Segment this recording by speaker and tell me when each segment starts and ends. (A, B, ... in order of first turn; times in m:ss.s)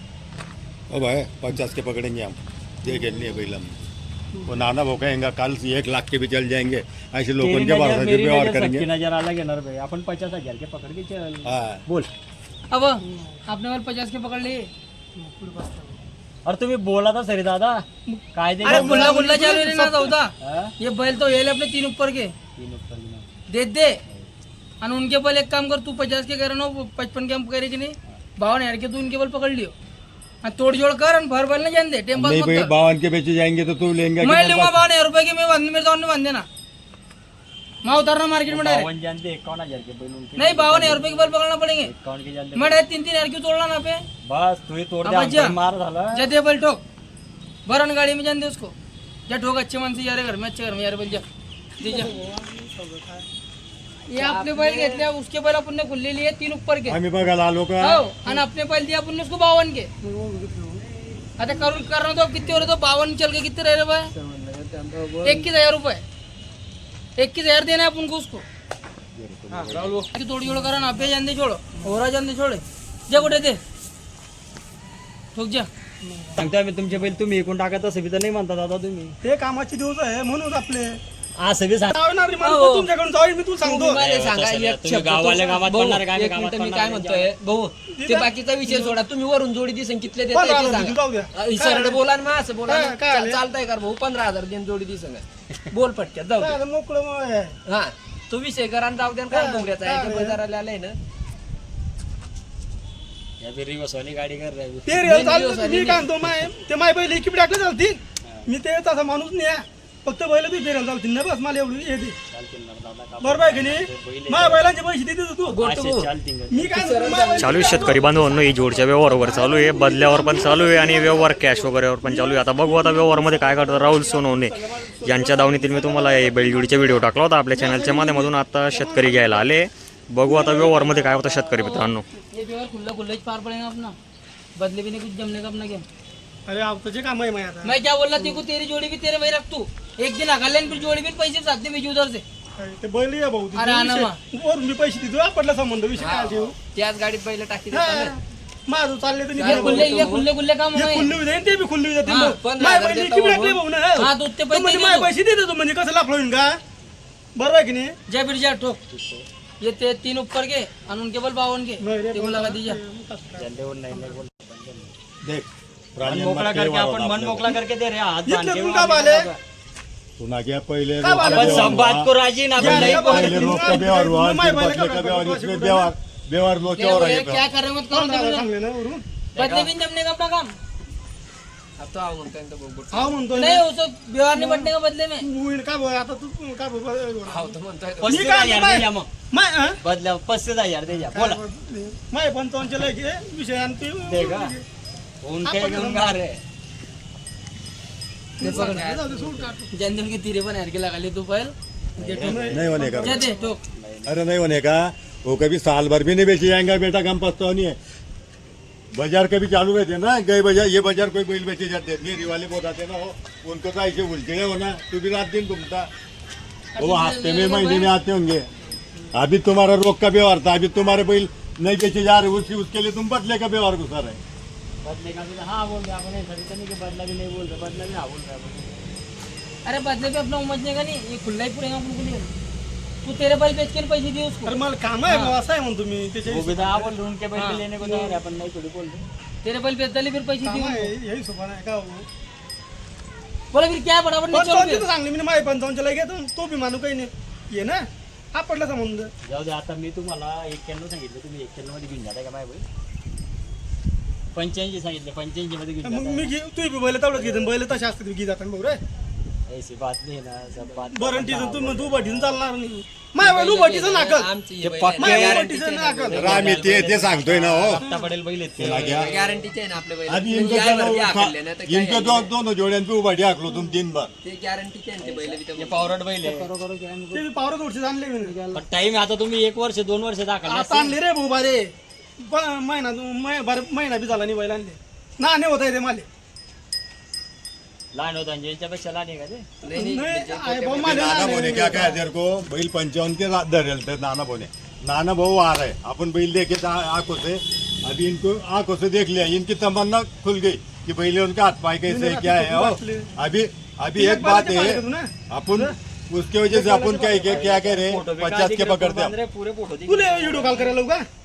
0:00.9-0:03.8 A
0:04.4-0:08.9 A
0:07.4-0:12.1 B
0:11.4-0:11.8 A
0:12.7-0:14.7 C
0:13.1-0:13.4 D
0:15.2-0:16.0 D
0:16.4-0:19.2 B
0:18.1-0:20.2 D
0:18.6-0:22.3 C
0:20.4-0:20.7 B
0:22.6-0:23.3 B
0:23.5-0:24.0 C
0:24.8-0:29.7 C
0:30.4-0:32.7 C
0:32.1-0:34.8 A
0:34.2-0:36.4 C
0:37.8-0:38.9 C
0:38.5-0:42.8 B
0:40.4-0:41.9 C
0:42.5-0:44.0 C
0:44.2-0:46.2 B
0:45.0-0:45.6 C
0:46.1-0:46.8 C
0:47.6-0:48.7 C
0:49.3-0:51.2 C
0:51.8-0:52.1 C
0:51.9-0:53.2 D
0:54.1-0:57.0 C
0:54.2-0:55.1 E
0:56.9-0:58.0 A
0:57.8-0:59.9 C
1:00.0-1:00.8 D
1:01.4-1:04.1 C
1:02.4-1:02.7 E
1:04.1-1:05.5 E
1:05.2-1:06.0 C
1:07.2-1:08.4 C
1:09.2-1:10.0 A
1:09.5-1:10.1 E
1:09.6-1:09.9 B
1:10.1-1:13.6 C
1:10.5-1:11.1 D
1:15.3-1:15.7 C
1:16.0-1:16.4 D
1:16.4-1:19.2 B
1:19.2-1:21.0 D
1:21.4-1:21.9 B
1:21.9-1:24.0 D
1:22.4-1:22.9 E
1:23.6-1:36.6 E
1:24.0-1:27.3 B
1:27.9-1:29.0 D
1:30.3-1:32.0 D
1:32.6-1:33.4 D
1:36.4-1:37.5 D
1:37.7-1:41.0 E
1:39.3-1:40.4 D
1:43.4-1:45.0 B
1:44.8-1:52.2 D
1:45.0-1:46.1 E
1:52.3-1:54.7 B
1:53.2-1:55.6 D
1:55.5-1:56.1 E
1:55.5-1:56.9 B
1:56.5-2:09.5 D
1:56.7-1:58.5 E
1:57.4-2:12.0 F
2:10.2-2:11.4 D
2:11.5-2:14.0 C
2:14.6-2:15.8 C
2:16.4-2:18.4 D
2:17.6-2:22.2 C
2:22.6-2:26.6 D
2:23.5-2:24.2 C
2:26.0-2:28.2 E
2:27.7-2:36.6 D
2:29.3-2:30.3 E
2:29.4-2:31.1 C
2:32.0-2:32.4 C
2:32.3-2:33.6 E
2:34.0-2:35.1 C
2:37.3-2:37.9 D
2:38.1-2:38.8 C
2:38.9-2:39.2 B
2:39.6-2:42.8 C
2:41.8-2:44.2 D
2:43.4-2:44.9 B
2:45.2-2:47.5 A
2:46.0-2:49.4 B
2:48.2-2:49.3 D
2:50.2-2:52.1 A
2:51.0-2:51.8 D
2:51.2-2:53.7 B
2:52.6-2:55.9 D
2:52.6-2:57.4 A
2:56.8-2:58.5 C
2:57.9-2:59.0 D
2:59.3-2:59.7 B
2:59.4-3:00.5 C
3:01.8-3:03.3 E
3:02.9-3:03.6 D
3:03.3-3:05.3 C
3:04.3-3:09.8 D
3:07.2-3:08.2 E
3:08.0-3:09.1 B
3:09.8-3:11.4 B
3:11.1-3:14.6 D
3:14.0-3:14.5 B
3:15.2-3:16.0 B
3:15.4-3:16.2 D
3:15.6-3:16.4 E
3:18.4-3:19.7 D
3:18.4-3:18.8 C
3:18.4-3:19.4 E
3:19.6-3:22.4 C
3:22.0-3:23.0 B
3:22.1-3:23.3 D
3:22.5-3:23.2 A
3:23.0-3:23.6 C
3:23.8-3:24.1 B
3:24.0-3:27.8 A
3:28.9-3:35.9 A
3:36.7-3:37.9 C
3:36.8-3:38.4 A
3:39.1-3:44.2 A
3:44.8-3:48.9 B
3:49.6-3:52.3 C
3:53.0-3:55.4 C
3:54.4-3:56.9 D
3:56.2-3:59.0 B
3:57.3-3:58.2 C
3:59.4-4:00.9 C
4:00.4-4:02.0 D
4:03.5-4:04.8 C
4:04.3-4:09.1 D
4:09.2-4:12.6 B
4:14.3-4:16.3 B
4:15.8-4:18.8 D
4:17.1-4:17.6 B
4:19.5-4:22.4 B
4:20.9-4:24.3 D
4:23.2-4:26.6 E
4:24.6-4:25.5 B
4:25.0-4:26.3 D
4:26.0-4:29.4 B
4:26.1-4:27.8 A
4:27.8-4:28.0 D
4:28.6-4:29.1 A
4:28.8-4:32.3 E
4:30.1-4:34.1 A
4:34.2-4:36.0 E
4:35.0-4:36.5 B
4:36.2-4:37.2 C
4:37.1-4:38.4 D
4:38.2-4:38.6 C
4:38.5-4:40.9 B
4:40.4-4:46.1 D
4:47.9-4:49.4 B
4:49.6-4:51.9 E
4:49.7-4:52.0 D
4:50.8-5:09.1 A
5:01.8-5:03.1 D
5:04.0-5:05.7 D
5:06.5-5:07.1 D
5:07.0-5:10.8 B
5:09.9-5:11.0 D